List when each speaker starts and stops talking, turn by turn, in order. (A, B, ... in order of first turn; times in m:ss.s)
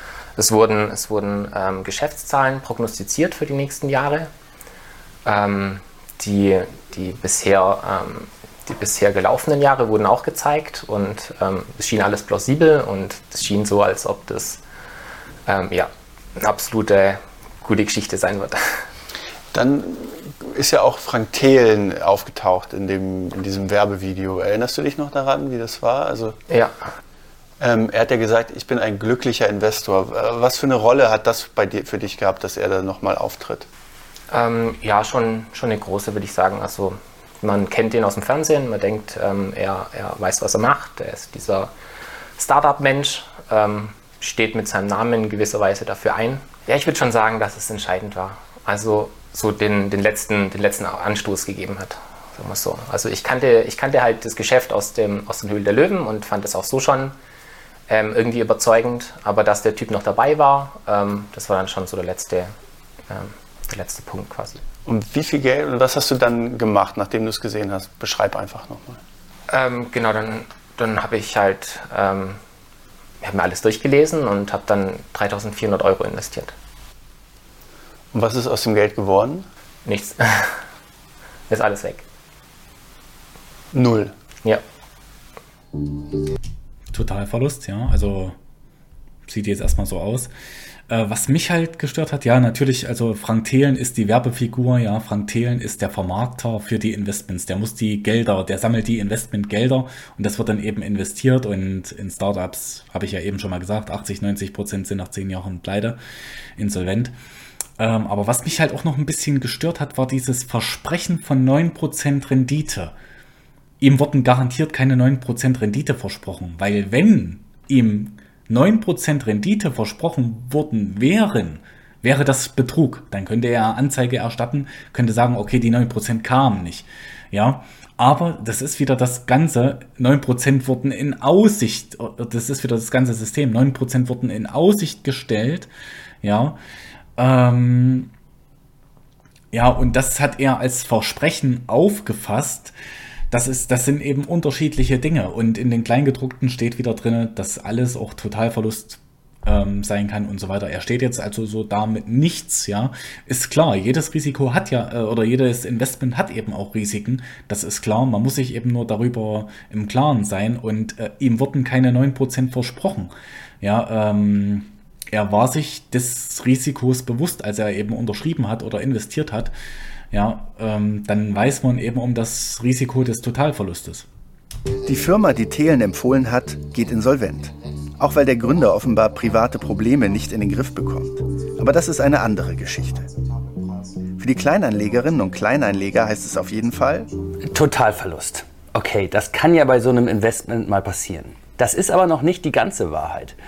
0:00.4-0:04.3 A
0:05.2-0:14.6 A
0:15.5-0:18.8 A
0:19.5-0:26.4 B
0:26.5-0:26.9 A
0:27.6-0:33.7 B
0:34.3-0:41.7 A
0:42.4-0:57.2 A
0:57.9-1:02.5 A
1:03.1-1:04.6 A
1:04.9-1:09.0 B
1:09.5-1:12.4 A
1:13.2-1:16.5 A
1:18.1-1:19.5 B
1:19.8-1:20.6 A
1:21.5-1:22.0 A
1:23.7-1:24.1 B
1:26.9-1:28.4 C
1:29.3-1:30.3 C
1:30.9-1:46.0 C
1:46.6-1:47.1 C
1:47.8-1:52.9 C
1:53.8-2:15.7 C
2:16.2-2:16.6 C
2:17.2-2:18.1 C
2:19.5-2:22.7 C
2:23.3-2:49.5 C
2:50.1-2:54.1 C
2:54.8-3:03.2 D
3:04.1-3:07.1 D
3:07.4-3:13.4 E